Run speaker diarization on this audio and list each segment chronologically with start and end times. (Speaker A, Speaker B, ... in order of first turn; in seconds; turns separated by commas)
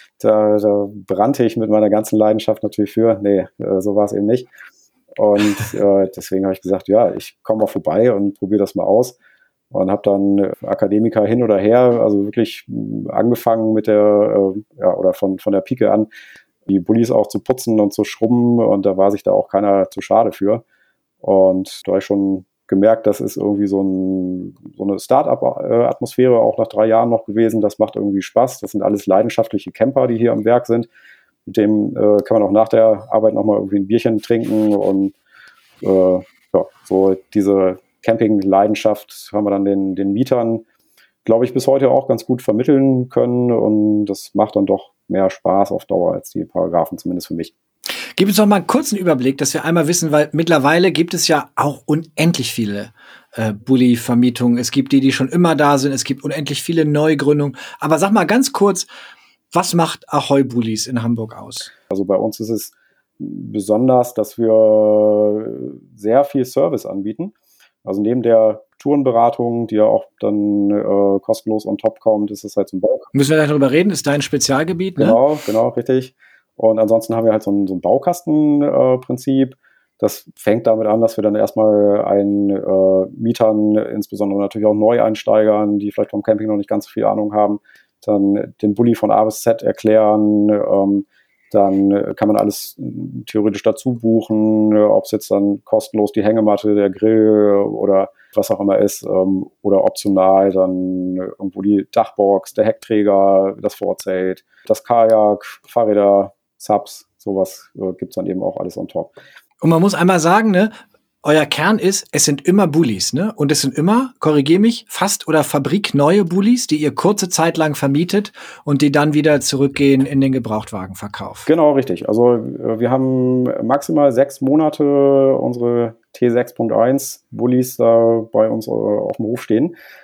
Speaker A: 0.2-4.5, Speaker A: 5.2-9.2, Speaker A: 9.7-16.1, Speaker A: 16.6-20.6, Speaker A: 21.2-30.9, Speaker A: 31.4-35.1, Speaker A: 35.8-40.6, Speaker A: 41.2-47.5, Speaker B: 48.1-58.9, Speaker B: 59.5-61.7, Speaker A: 61.9-67.3, Speaker A: 67.8-73.1, Speaker B: 73.1-75.2, Speaker A: 75.0-109.1, Speaker B: 109.6-121.5, Speaker A: 121.5-129.7